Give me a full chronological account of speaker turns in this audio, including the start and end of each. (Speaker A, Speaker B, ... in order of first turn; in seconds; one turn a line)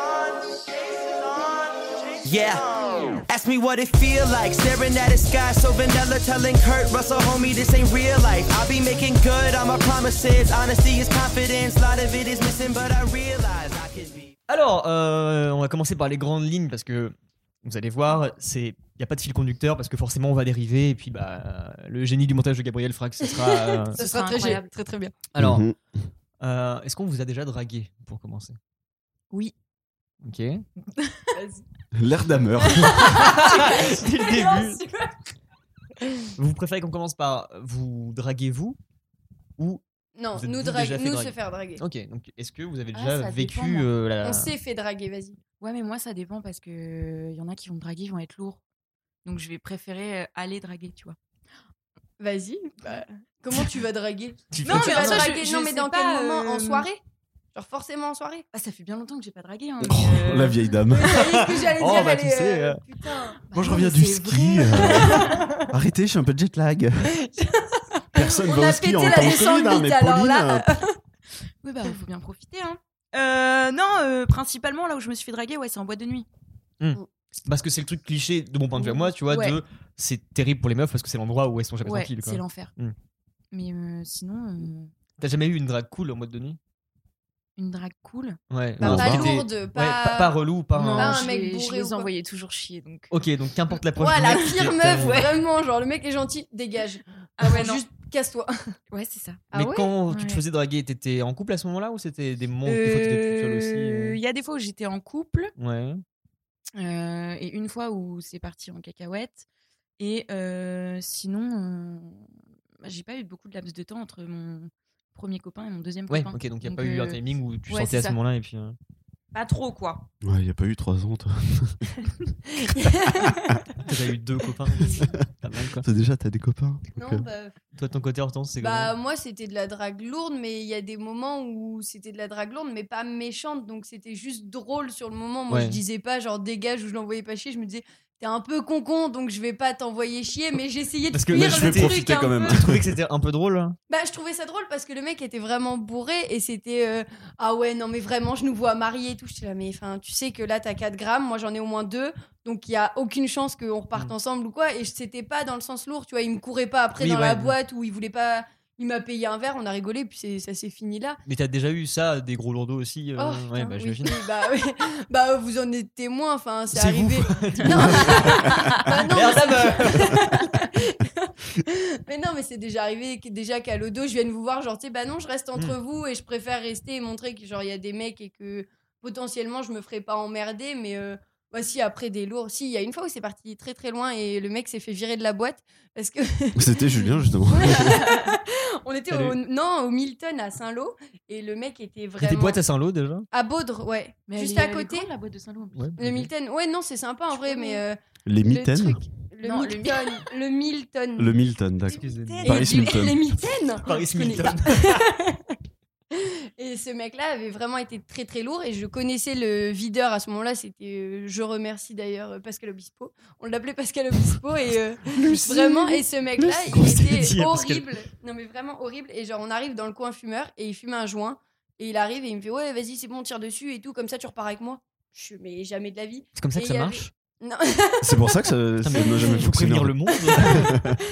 Speaker A: 2.2-14.3
Speaker B: 14.5-24.0
Speaker C: 23.3-25.1
Speaker D: 24.0-24.7
Speaker B: 25.3-25.6
Speaker E: 25.4-25.8
Speaker B: 26.4-28.6
Speaker B: 30.2-30.7
Speaker D: 31.0-31.3
Speaker C: 31.4-31.6
Speaker E: 31.9-33.1
Speaker C: 33.1-35.1
Speaker B: 33.1-34.8
Speaker D: 33.5-33.8
Speaker B: 36.4-38.8
Speaker C: 40.2-41.8
Speaker B: 40.4-44.5
Speaker D: 42.9-43.9
Speaker C: 44.2-45.4
Speaker D: 45.6-48.6
Speaker D: 49.2-51.2
Speaker C: 52.2-57.0
Speaker B: 54.5-55.3
Speaker D: 54.6-56.9
Speaker C: 57.5-58.5
Speaker D: 58.5-60.7
Speaker E: 59.8-61.2
Speaker C: 61.0-63.4
Speaker B: 61.2-62.8
Speaker D: 63.4-65.5
Speaker E: 63.5-67.1
Speaker C: 67.2-71.0
Speaker E: 68.1-70.7
Speaker D: 71.6-76.3
Speaker B: 76.8-83.0
Speaker D: 78.8-79.6
Speaker D: 81.8-82.7
Speaker D: 83.5-84.9
Speaker B: 85.2-86.6
Speaker D: 87.6-88.4
Speaker B: 88.5-91.2
Speaker E: 88.8-89.3
Speaker C: 88.8-90.3
Speaker D: 90.8-93.1
Speaker C: 90.9-92.1
Speaker B: 93.1-95.3
Speaker C: 94.0-98.5
Speaker D: 97.4-97.8
Speaker D: 98.9-99.4
Speaker C: 99.5-99.9
Speaker B: 99.5-104.2
Speaker D: 100.1-100.4
Speaker D: 102.7-105.5
Speaker B: 105.6-106.0
Speaker D: 106.8-109.5
Speaker D: 110.0-112.3
Speaker D: 112.8-118.2
Speaker B: 116.1-118.8
Speaker D: 119.3-120.0
Speaker E: 120.2-121.8
Speaker C: 122.8-123.2
Speaker B: 123.8-125.8
Speaker E: 125.8-127.2
Speaker C: 127.0-127.5
Speaker B: 127.8-128.9
Speaker C: 128.6-142.6
Speaker B: 135.5-135.8
Speaker B: 141.1-142.0
Speaker E: 141.3-142.9
Speaker B: 142.5-143.8
Speaker C: 143.9-161.2
Speaker B: 157.0-157.5
Speaker B: 161.3-164.2
Speaker C: 163.2-186.8
Speaker B: 166.7-168.4
Speaker D: 167.8-169.4
Speaker B: 169.1-170.1
Speaker D: 170.4-170.7
Speaker E: 186.6-188.1
Speaker D: 187.0-188.3
Speaker C: 187.5-192.6
Speaker B: 189.1-189.4
Speaker B: 192.2-193.3
Speaker C: 193.3-195.1
Speaker D: 194.3-196.2
Speaker B: 195.7-196.0
Speaker C: 196.0-201.3
Speaker D: 197.3-197.8
Speaker E: 198.3-199.0
Speaker D: 199.4-200.2
Speaker E: 201.2-203.2
Speaker D: 201.9-202.8
Speaker B: 201.9-202.4
Speaker C: 202.4-205.6
Speaker B: 203.8-205.0
Speaker C: 206.6-228.4
Speaker D: 215.3-216.0
Speaker E: 216.4-217.3
Speaker B: 216.8-217.8
Speaker B: 226.4-227.1
Speaker E: 228.0-231.0
Speaker B: 228.8-230.7